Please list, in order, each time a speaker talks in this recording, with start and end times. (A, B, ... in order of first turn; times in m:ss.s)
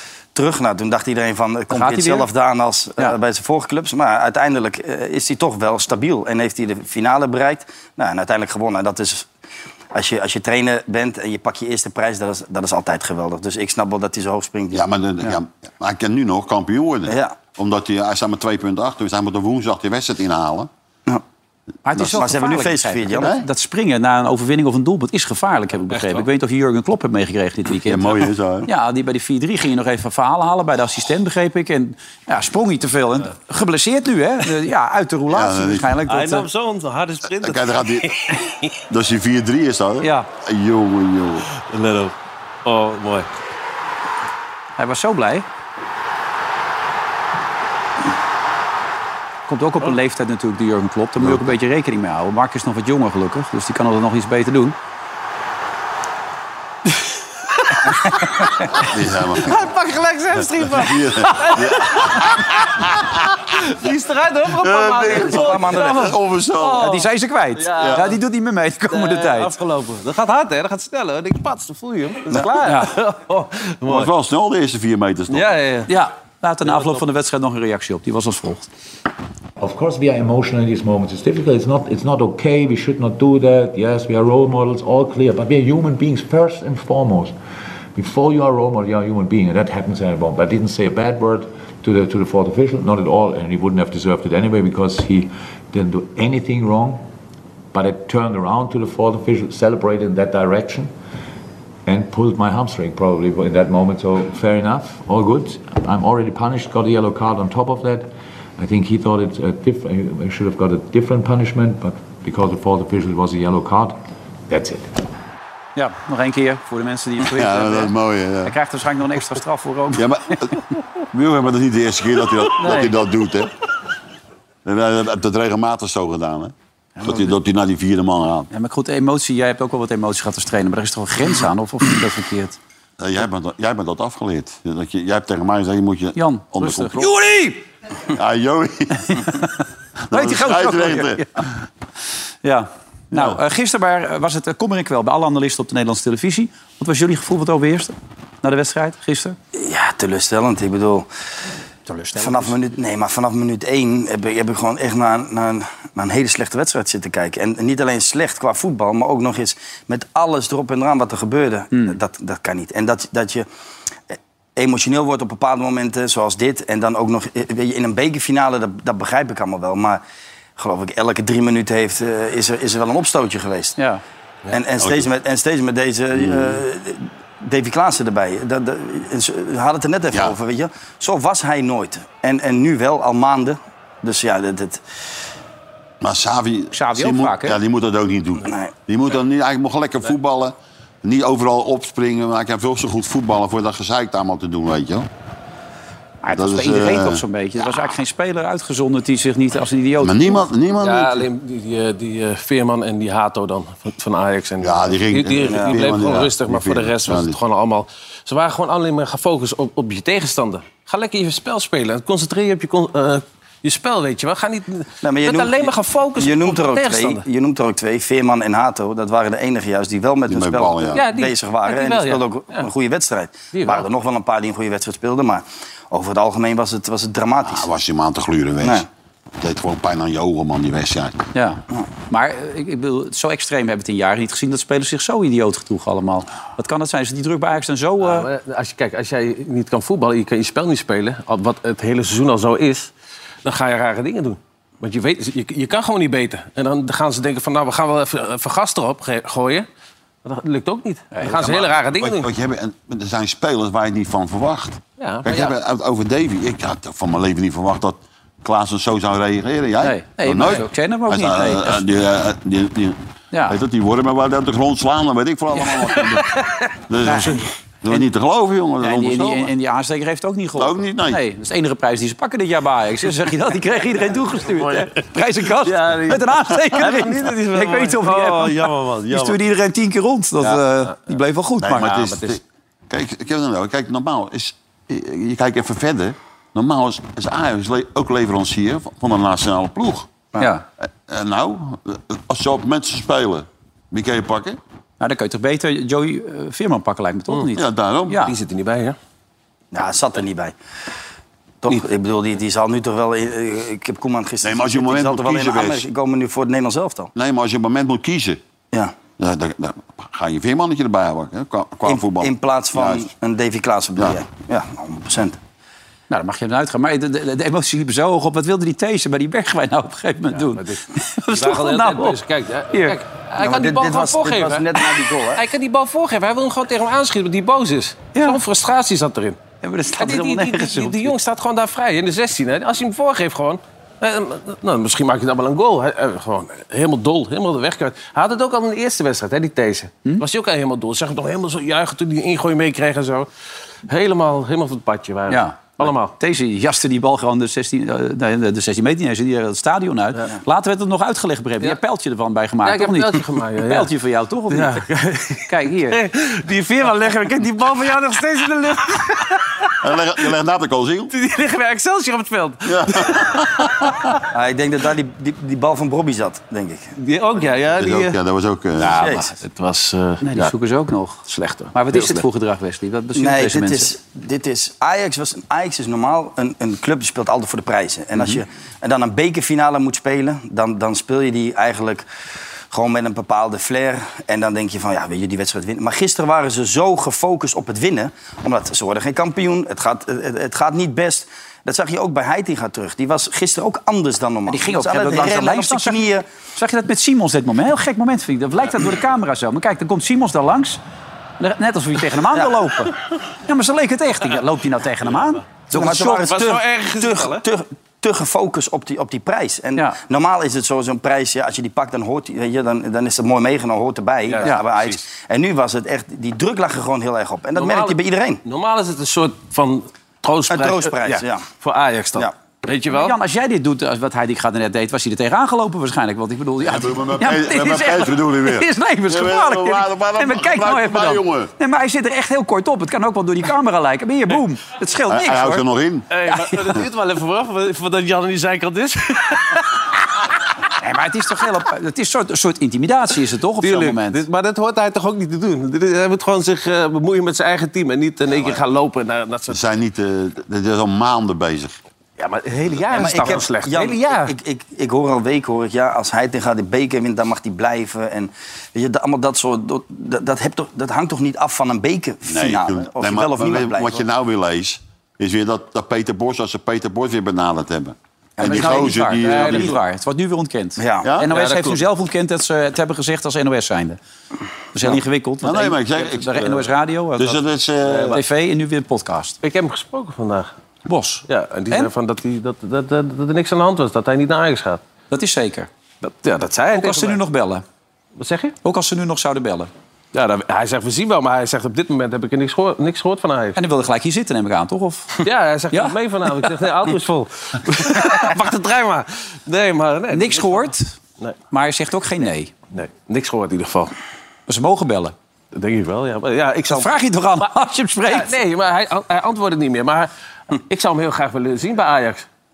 0:00.3-0:09.3 A
0:01.7-0:02.3 B
0:09.9-0:14.9 A
0:14.7-0:20.7 C
0:17.1-0:17.4 A
0:21.8-0:36.4 B
0:21.9-0:23.3 A
0:23.2-0:23.4 C
0:25.9-0:26.2 D
0:27.9-0:28.7 C
0:35.3-0:35.9 C
0:36.1-0:38.7 D
0:37.4-0:38.1 C
0:38.9-0:41.5 C
0:40.0-0:40.3 B
0:41.6-0:42.1 D
0:42.6-0:43.3 D
0:44.8-0:45.4 B
0:49.5-0:54.8 B
0:51.2-0:51.5 C
0:58.9-0:59.6 C
0:59.4-1:02.7 D
1:00.6-1:03.2 C
1:03.5-1:08.1 D
1:04.5-1:07.0 C
1:05.1-1:06.1 A
1:06.8-1:09.5 B
1:07.8-1:08.1 C
1:08.9-1:14.1 D
1:12.6-1:12.9 B
1:13.9-1:15.5 C
1:15.3-1:15.9 D
1:15.9-1:18.7 B
1:19.6-1:27.4 E
1:27.9-1:37.0 E
1:37.7-1:40.9 E
1:41.8-1:55.0 E
1:55.8-2:00.1 B
1:57.2-1:58.6 C
1:59.9-2:00.6 C
2:01.1-2:03.5 C
2:04.6-2:08.5 C
2:08.5-2:12.6 B
2:13.0-2:17.1 C
2:16.1-2:17.6 B
2:18.1-2:19.3 C
2:20.1-2:21.5 C
2:20.1-2:21.3 B
2:22.4-2:29.4 B
2:23.1-2:23.4 C
2:29.6-2:31.1 A
2:31.9-2:32.6 B
2:32.2-2:43.5 A
2:41.7-2:42.0 B
2:44.1-2:50.0 A
2:50.6-2:53.8 A
2:54.5-3:04.8 A
2:54.8-2:55.1 C
2:56.1-2:56.6 C
3:06.0-3:15.1 C
3:06.7-3:07.6 B
3:08.4-3:08.7 A
3:16.2-3:20.4 B
3:16.3-3:17.2 C
3:20.0-3:21.3 C
3:20.8-3:37.2 D
3:24.6-3:27.4 C
3:25.5-3:25.8 A
3:35.0-3:47.7 A
3:40.3-3:41.0 C
3:40.9-3:42.7 D
3:43.5-3:43.9 D
3:47.4-3:48.9 C
3:49.4-3:51.2 C
3:51.3-3:58.3 B
3:58.0-4:02.9 D
4:03.4-4:09.7 D
4:10.2-4:12.3 D
4:11.1-4:11.6 B
4:11.9-4:26.3 C
4:15.0-4:15.6 D
4:19.8-4:21.8 B
4:23.3-4:23.6 B
4:25.5-4:26.0 B
4:26.9-4:29.5 C
4:27.0-4:27.4 B
4:28.8-4:42.0 B
4:30.6-4:31.2 C
4:34.6-4:34.9 D
4:35.6-4:39.4 D
4:40.4-4:40.9 D
4:41.6-4:50.1 C
4:42.0-4:42.4 D
4:50.4-4:50.6 B
4:50.8-4:54.6 C
4:55.0-4:58.3 B
4:57.5-4:58.2 C
4:58.2-4:59.0 D
4:59.7-5:00.5 A
5:01.6-5:07.1 A
5:04.4-5:05.9 C
5:07.1-5:08.4 C
5:09.2-5:13.1 C
5:11.9-5:15.4 A
5:16.1-5:22.2 B
5:20.4-5:29.4 D
5:22.7-5:23.0 B
5:23.4-5:25.4 A
5:28.1-5:28.4 B
5:29.6-5:31.1 B
5:30.0-5:43.3 D
5:43.9-5:46.1 D
5:45.3-5:54.8 B
5:52.6-5:53.9 D
5:54.5-5:59.7 D
5:55.5-5:56.0 B
5:59.8-6:01.1 C
6:01.1-6:03.3 D
6:02.6-6:04.0 C
6:04.3-6:06.9 A
6:07.0-6:08.2 D
6:07.8-6:09.1 C
6:08.8-6:10.5 D
6:09.0-6:09.3 A
6:10.2-6:13.9 B
6:11.3-6:12.2 D
6:13.1-6:22.0 A
6:22.7-6:36.2 A
6:34.5-6:40.8 B
6:41.4-6:46.3 B
6:42.3-6:42.6 A
6:45.7-6:58.4 A
6:46.2-6:47.4 D
6:54.3-6:55.0 D
6:57.6-7:03.1 D
7:00.5-7:01.4 A
7:02.9-7:15.6 B
7:06.6-7:11.5 C
7:15.1-7:16.1 C
7:16.1-7:19.8 D
7:20.8-7:24.2 B
7:23.6-7:29.6 D
7:28.3-7:28.6 C
7:29.5-7:31.8 C
7:32.2-7:34.3 D
7:32.9-7:44.0 A
7:42.3-7:49.8 C
7:48.4-7:48.9 A
7:48.4-7:54.0 B
7:50.8-7:51.1 A
7:51.0-7:51.3 C
7:51.3-7:51.8 D
7:54.7-7:57.4 B
7:55.4-7:58.2 C
7:57.9-7:58.2 D
7:58.1-7:59.4 B
7:59.4-8:00.5 D
8:00.9-8:01.9 B
8:01.3-8:04.8 D
8:05.1-8:07.6 B
8:06.3-8:07.2 D
8:08.2-8:08.6 D
8:08.6-8:09.7 B
8:10.1-8:13.6 D
8:13.6-8:16.0 B
8:15.2-8:21.4 D
8:20.1-8:21.0 B
8:21.5-8:22.5 B
8:22.7-8:24.0 D
8:24.5-8:25.1 B
8:25.5-8:27.5 D
8:26.7-8:28.3 B
8:28.0-8:32.2 D